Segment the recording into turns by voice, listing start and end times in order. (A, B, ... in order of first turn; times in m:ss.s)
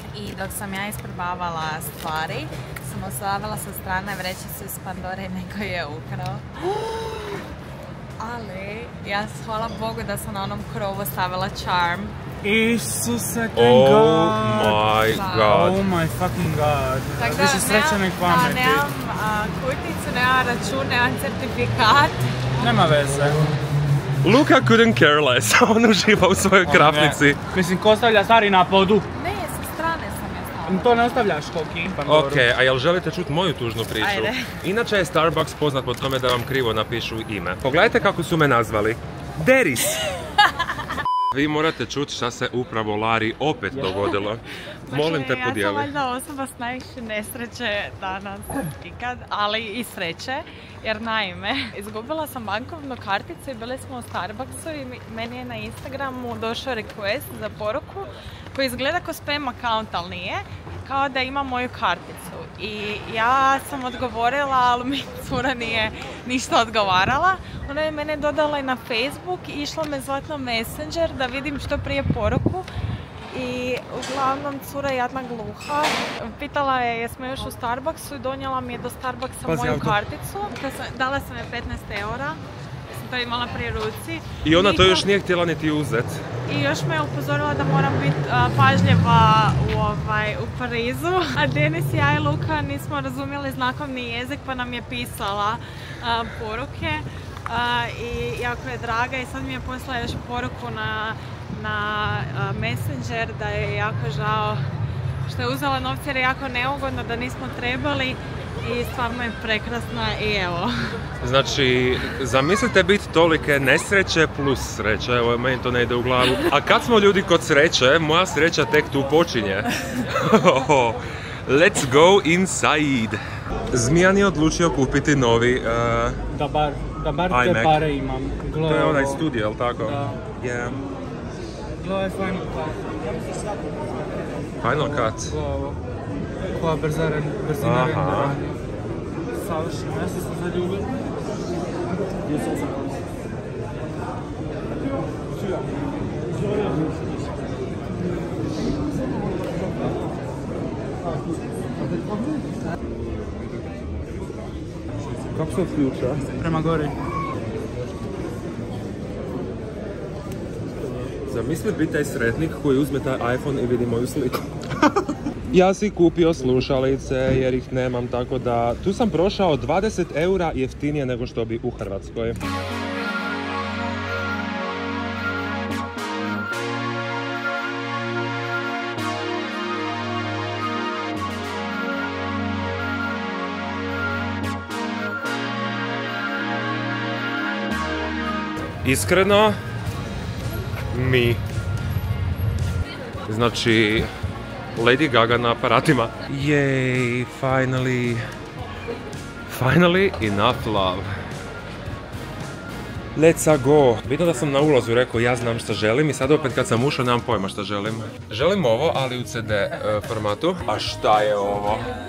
0:00.1-0:06.5 A
0:08.2-0:12.1 A
0:12.4-0:14.8 B
0:13.5-0:15.8 C
0:15.1-0:15.6 A
0:15.4-0:18.8 B
0:17.2-0:22.2 A
0:22.6-0:23.4 B
0:24.2-0:27.4 C
0:26.6-0:29.1 B
0:29.1-0:31.1 A
0:30.7-0:32.4 B
0:32.0-0:40.0 C
0:34.0-0:34.5 A
0:41.3-0:45.9 C
0:44.9-1:12.7 A
1:13.3-1:22.4 A
1:19.4-1:20.0 C
1:22.9-1:25.1 A
1:24.4-1:26.2 C
1:26.5-1:44.6 A
1:45.3-1:50.7 A
1:51.2-2:03.2 C
2:03.7-2:06.2 C
2:06.3-2:09.2 B
2:07.3-2:07.8 C
2:08.6-2:10.8 C
2:09.8-2:10.2 B
2:11.8-2:13.8 B
2:14.6-2:15.3 C
2:14.6-2:15.8 B
2:16.5-2:18.6 B
2:17.6-2:18.4 C
2:19.3-2:21.0 B
2:35.3-2:36.3 C
2:36.4-2:36.9 B
2:41.3-2:44.5 C
2:45.5-2:52.4 C
3:08.8-3:09.6 C
3:10.9-3:11.4 C
3:13.3-3:14.1 C
3:14.8-3:18.2 C
3:19.5-3:21.1 C
3:23.2-3:31.9 C